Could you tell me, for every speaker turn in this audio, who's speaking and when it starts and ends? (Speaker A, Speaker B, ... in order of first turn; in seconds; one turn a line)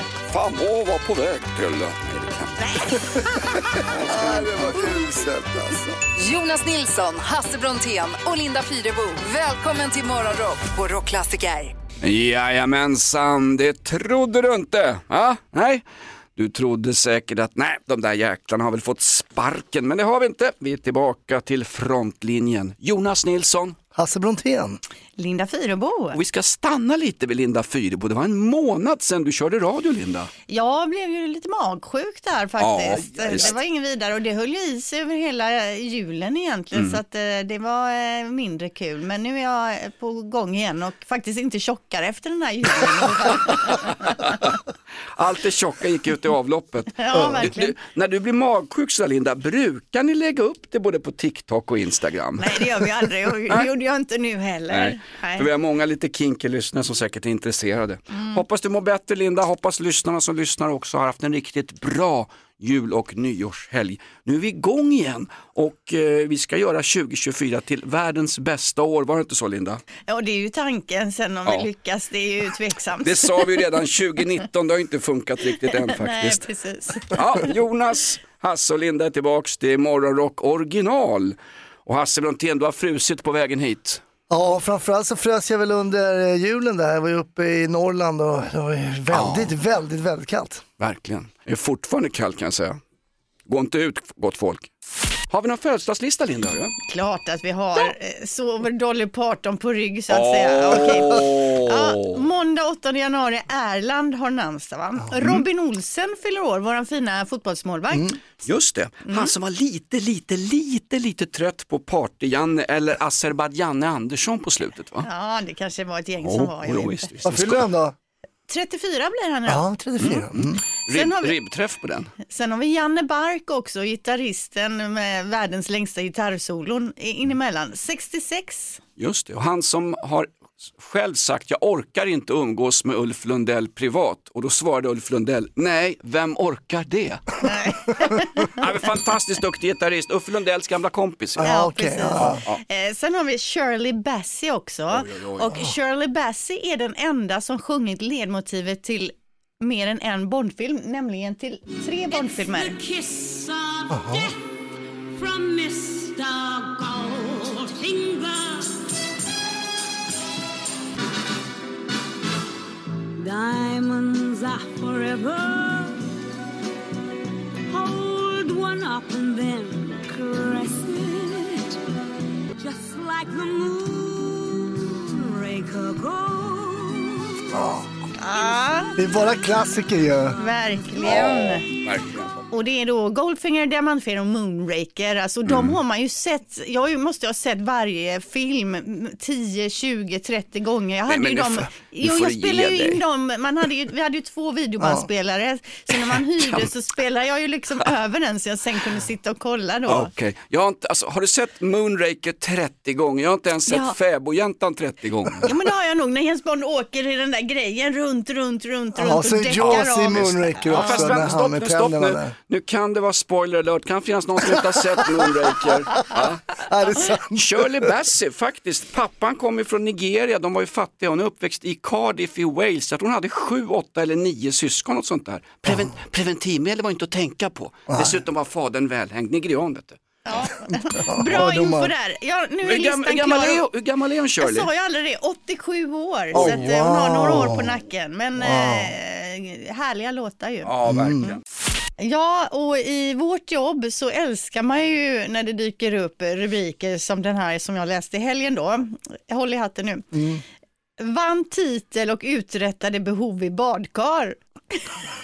Speaker A: 0.3-2.6
Speaker B: 2.6-3.5
Speaker C: 3.9-6.0
Speaker D: 6.1-11.8
Speaker A: 12.0-15.8
Speaker A: 16.4-23.8
Speaker C: 23.9-24.8
Speaker B: 25.2-26.2
Speaker A: 26.1-30.3
Speaker B: 30.5-44.4
Speaker A: 32.6-33.5
Speaker A: 36.7-37.0
Speaker A: 45.2-52.8
Speaker B: 47.0-47.8
Speaker B: 52.4-55.5
Speaker A: 54.7-69.8
Speaker B: 58.1-58.4
Speaker B: 70.1-73.7
Speaker A: 73.0-76.5
Speaker B: 75.7-77.1
Speaker A: 77.1-84.0
Speaker C: 84.3-90.6
Speaker A: 89.1-89.5
Speaker A: 90.8-92.8
Speaker A: 93.5-94.7
Speaker A: 95.3-96.8
Speaker B: 96.9-108.2
Speaker A: 100.1-102.2
Speaker C: 107.9-108.2
Speaker A: 108.4-115.1
Speaker B: 109.1-109.3
Speaker B: 115.0-117.1
Speaker A: 116.2-117.7
Speaker C: 117.2-118.0
Speaker B: 118.5-119.6
Speaker C: 119.5-120.6
Speaker A: 120.9-122.1
Speaker B: 120.9-121.3
Speaker B: 122.2-128.8
Speaker A: 129.0-137.3
Speaker B: 137.4-138.7
Speaker A: 138.6-141.4
Speaker C: 141.4-142.4
Speaker B: 141.4-152.8
Speaker A: 142.2-142.6
Speaker A: 144.9-145.5
Speaker E: 152.1-154.3
Speaker C: 153.9-154.3
Speaker E: 155.1-158.9
Speaker E: 163.2-166.1
Speaker E: 167.7-171.8
Speaker E: 172.6-177.6
Speaker C: 177.5-177.9
Speaker B: 178.2-179.0
Speaker C: 179.0-180.4
Speaker B: 180.4-181.7
Speaker A: 181.1-182.4
Speaker B: 182.5-200.1
Speaker A: 185.5-185.8
Speaker A: 191.1-193.0
Speaker C: 194.8-195.1
Speaker A: 196.1-196.7
Speaker A: 199.9-205.5
Speaker B: 203.7-204.0
Speaker B: 205.4-211.3
Speaker C: 208.9-212.3
Speaker A: 209.5-216.5
Speaker C: 216.0-217.9
Speaker A: 217.3-230.0
Speaker C: 227.9-228.2
Speaker B: 230.3-233.6
Speaker C: 231.0-231.9
Speaker A: 232.6-234.7
Speaker B: 234.4-240.7
Speaker C: 236.3-237.8
Speaker C: 238.4-238.9
Speaker A: 240.7-241.4
Speaker C: 240.9-241.3
Speaker B: 242.0-250.1
Speaker C: 250.1-250.4
Speaker B: 251.0-254.9